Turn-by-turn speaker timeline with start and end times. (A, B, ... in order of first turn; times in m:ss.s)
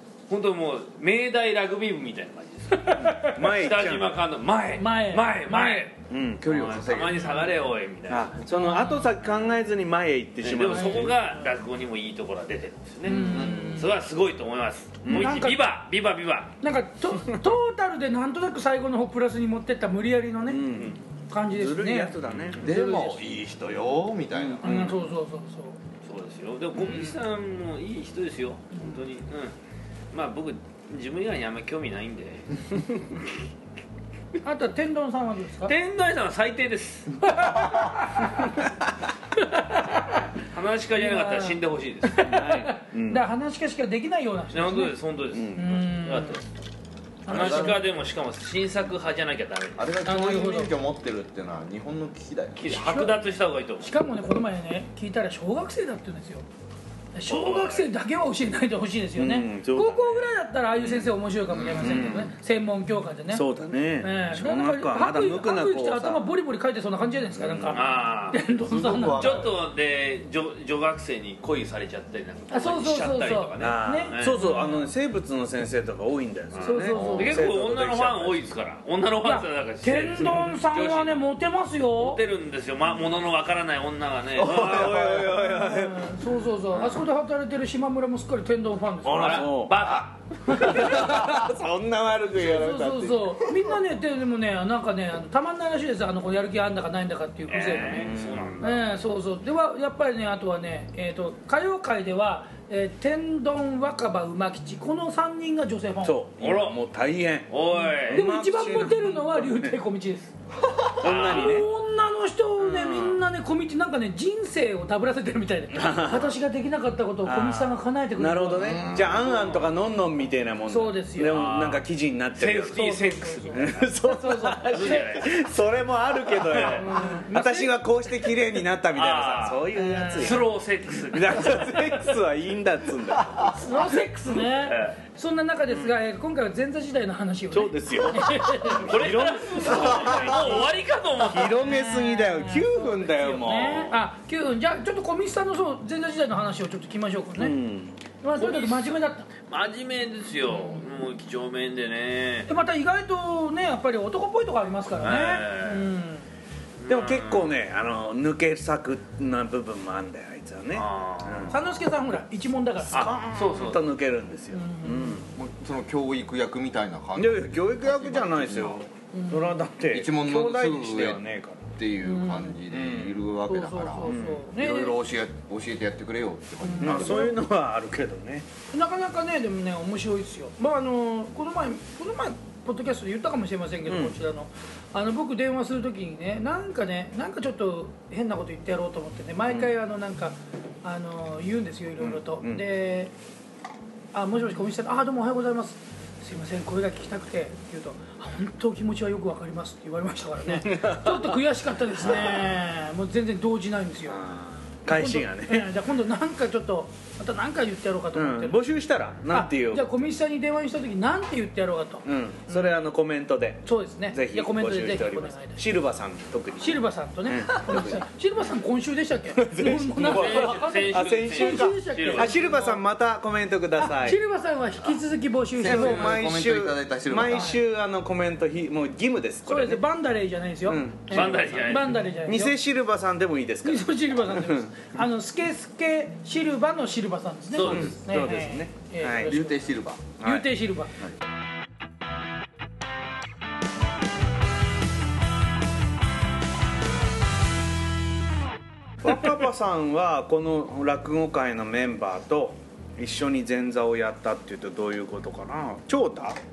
0:00.3-0:08.4 A
0:02.8-0:03.5 B
0:03.1-0:04.2 C
0:04.8-0:05.9 B
0:06.1-0:06.8 C
0:06.4-0:07.6 D
0:08.1-0:11.2 C
0:08.5-0:09.1 B
0:10.4-0:16.6 A
0:10.7-0:11.2 B
0:13.0-0:13.9 B
0:13.2-0:13.8 D
0:15.1-0:15.7 B
0:15.1-0:15.4 C
0:16.6-0:23.4 B
0:20.5-0:21.0 C
0:21.5-0:22.7 C
0:22.3-0:22.6 A
0:22.6-0:24.9 D
0:24.3-0:25.0 C
0:24.6-0:25.8 B
0:26.0-0:29.6 A
0:26.8-0:27.1 B
0:30.1-0:33.1 A
0:34.4-0:35.8 B
0:35.6-0:37.5 A
0:37.3-0:38.5 B
0:39.4-0:40.2 B
0:40.4-0:42.8 A
0:40.9-0:45.0 B
0:42.3-0:43.2 C
0:44.5-0:46.7 A
0:45.3-0:45.7 C
0:45.5-0:46.4 B
0:47.3-0:47.8 B
0:47.3-0:49.9 A
0:47.3-0:47.8 D
0:49.8-0:52.7 D
0:50.0-0:50.7 B
0:52.6-0:53.9 A
0:52.7-0:53.3 B
0:53.8-0:56.4 B
0:57.1-1:09.4 B
0:57.3-0:57.9 A
0:59.2-1:01.1 C
1:01.5-1:02.3 D
1:01.8-1:02.3 C
1:03.3-1:06.3 C
1:07.4-1:07.8 C
1:07.7-1:08.4 A
1:08.6-1:09.6 D
1:09.1-1:14.4 A
1:12.5-1:14.9 B
1:13.6-1:18.4 C
1:16.5-1:21.2 A
1:16.6-1:17.3 B
1:16.9-1:17.4 D
1:19.2-1:22.2 B
1:22.0-1:25.0 A
1:24.4-1:25.5 D
1:24.5-1:26.1 C
1:25.4-1:29.6 B
1:26.7-1:27.0 D
1:29.0-1:29.9 C
1:29.1-1:31.0 A
1:30.5-1:33.5 C
1:30.6-1:31.1 B
1:32.3-1:46.3 B
1:37.5-1:38.9 A
1:37.9-1:38.6 C
1:46.0-1:49.8 C
1:46.4-1:46.8 A
1:47.5-1:48.3 A
1:48.1-1:50.3 B
1:51.0-1:51.7 C
1:51.0-1:51.6 A
1:51.0-1:58.9 B
1:52.6-1:53.2 C
1:55.7-1:56.3 C
1:57.2-2:02.9 C
1:58.6-1:59.3 D
1:59.0-1:59.8 A
2:00.7-2:01.5 B
2:01.3-2:03.9 A
2:02.7-2:05.1 B
2:03.5-2:10.5 C
2:04.6-2:05.4 A
2:06.2-2:06.9 A
2:06.7-2:07.8 B
2:08.9-2:12.2 A
2:09.7-2:10.5 B
2:11.1-2:13.6 C
2:13.2-2:13.5 D
2:13.4-2:19.0 B
2:14.5-2:15.0 A
2:17.5-2:20.7 C
2:18.8-2:21.8 A
2:19.7-2:20.4 D
2:21.2-2:24.0 C
2:21.4-2:27.7 B
2:27.4-2:28.0 C
2:28.2-2:29.3 B
2:28.4-2:32.5 A
2:30.5-2:30.8 B
2:32.5-2:36.3 B
2:35.0-2:35.9 A
2:36.8-2:37.6 A
2:36.9-2:41.6 C
2:40.7-2:41.6 A
2:41.5-2:43.2 B
2:42.9-2:43.9 A
2:42.9-2:45.3 C
2:44.5-2:45.3 B
2:45.3-2:48.8 D
2:47.2-2:51.6 C
2:49.1-2:49.6 B
2:49.9-2:51.2 D
2:51.8-2:57.4 D
2:52.0-2:52.6 B
2:52.7-2:53.2 C
2:53.5-2:55.0 B
2:54.1-2:54.4 C
2:56.6-2:57.4 B
2:56.8-2:58.5 C
2:58.7-3:13.1 B
3:03.9-3:04.2 C
3:12.0-3:12.6 C
3:14.1-3:24.2 B
3:20.5-3:21.4 C
3:24.1-3:25.7 C
3:24.8-3:28.6 B
3:28.1-3:29.9 C
3:29.3-3:32.9 B
3:32.0-3:38.0 C
3:33.6-3:35.6 B
3:36.6-3:42.8 B
3:39.3-3:44.2 C
3:40.0-3:42.4 A
3:43.8-3:46.2 B
3:45.6-3:47.6 D
3:45.6-3:49.8 C
3:47.3-3:47.6 B
3:49.4-3:52.6 B
3:50.7-3:54.9 C
3:51.1-3:51.9 A
3:53.6-4:00.9 B
3:57.5-3:57.9 A
3:57.6-3:59.3 C
3:59.2-4:00.1 D
4:00.2-4:00.5 C
4:09.0-4:16.4 C